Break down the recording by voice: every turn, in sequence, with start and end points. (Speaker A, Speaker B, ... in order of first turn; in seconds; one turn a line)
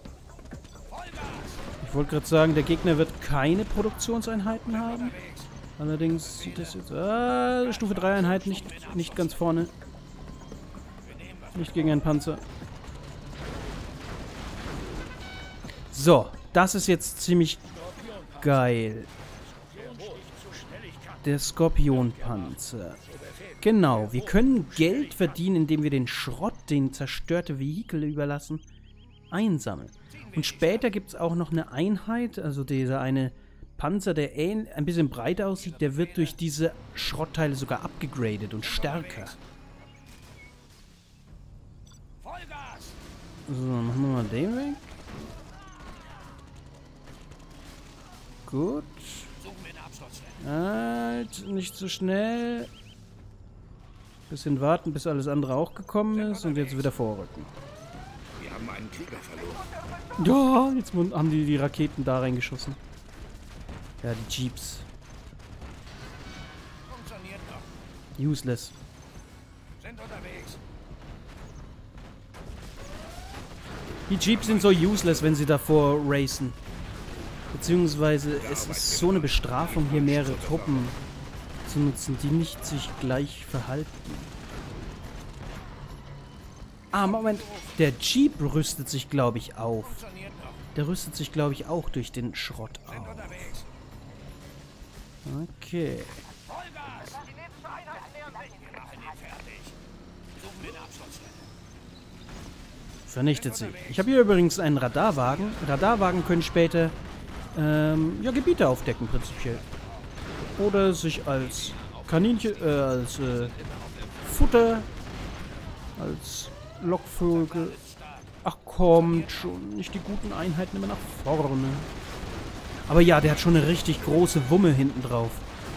Speaker A: 1.0-1.6
Speaker B: 1.8-5.2
Speaker A: 5.0-5.5
Speaker B: 5.8-9.7
Speaker A: 7.9-9.2
Speaker B: 11.5-12.4
Speaker B: 15.9-17.6
Speaker A: 17.9-18.3
Speaker B: 18.4-19.1
Speaker A: 19.7-21.0
Speaker B: 21.2-23.0
Speaker B: 23.6-28.6
Speaker B: 29.3-39.4
Speaker A: 38.9-39.3
Speaker A: 42.2-42.9
Speaker B: 43.5-44.9
Speaker B: 48.5-49.3
Speaker A: 49.4-50.3
Speaker B: 50.4-52.7
Speaker B: 54.3-57.5
Speaker C: 58.4-59.7
Speaker B: 60.2-62.8
Speaker B: 64.0-64.9
Speaker A: 66.9-67.7
Speaker B: 68.2-68.8
Speaker A: 69.8-70.6
Speaker B: 74.1-76.6
Speaker B: 77.5-81.0
Speaker C: 78.3-80.9
Speaker B: 81.6-84.3
Speaker B: 86.9-90.0
Speaker A: 90.0-90.6
Speaker B: 90.7-93.6
Speaker B: 95.2-96.2
Speaker A: 96.6-97.3
Speaker A: 98.0-99.7
Speaker A: 100.4-101.4
Speaker B: 103.0-107.0
Speaker B: 107.5-109.7
Speaker B: 110.6-113.6
Speaker B: 114.2-114.9
Speaker B: 116.0-117.8
Speaker B: 118.4-121.9
Speaker B: 122.9-125.4